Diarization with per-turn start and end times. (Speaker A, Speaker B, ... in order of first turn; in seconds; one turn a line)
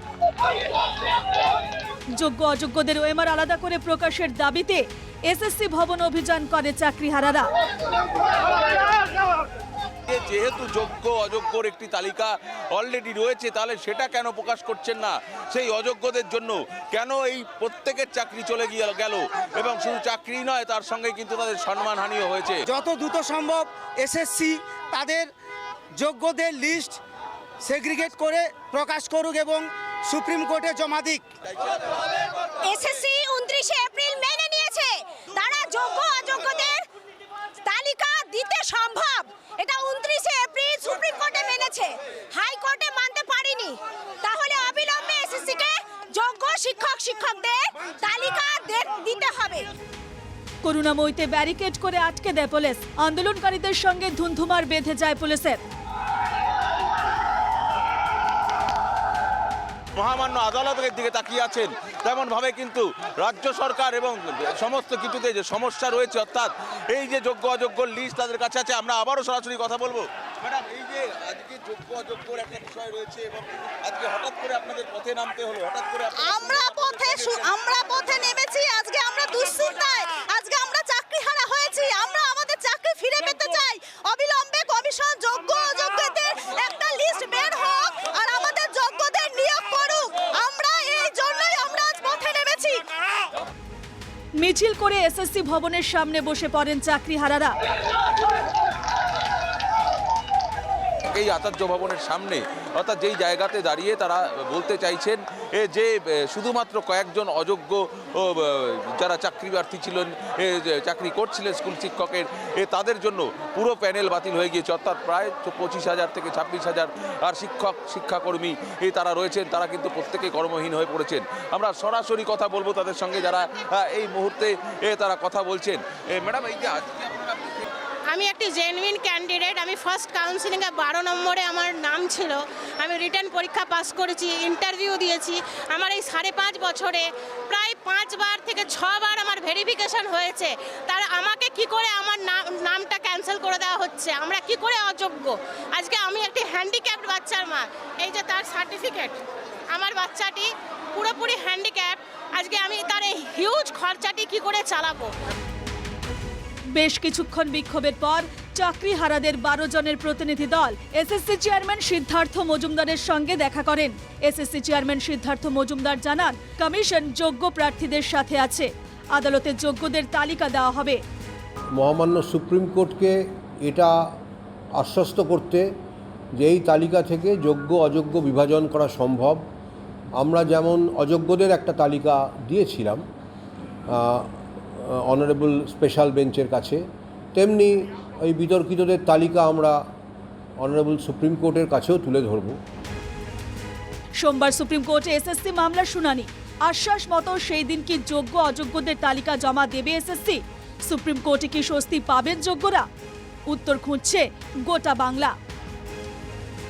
Speaker A: 2.1-7.5
Speaker B: 10.1-22.6
Speaker C: 22.7-25.3
Speaker C: 26.0-27.0
Speaker C: 27.6-31.2
Speaker D: 32.6-36.8
Speaker C: 33.0-34.9
Speaker C: 35.4-36.2
Speaker C: 37.7-43.7
Speaker D: 39.2-49.7
Speaker C: 44.4-47.6
Speaker C: 48.1-48.7
Speaker A: 50.6-55.6
Speaker B: 60.0-77.5
Speaker D: 76.2-92.8
Speaker C: 78.3-79.2
Speaker C: 91.1-92.5
Speaker A: 94.4-97.6
Speaker B: 101.1-127.7
Speaker E: 128.1-155.1
Speaker A: 156.8-171.0
Speaker F: 171.8-173.9
Speaker F: 174.8-175.6
Speaker F: 176.4-179.4
Speaker F: 180.2-183.0
Speaker F: 183.9-184.3
Speaker F: 184.8-186.8
Speaker F: 187.3-189.8
Speaker F: 190.6-192.6
Speaker A: 194.2-202.8
Speaker A: 203.5-205.3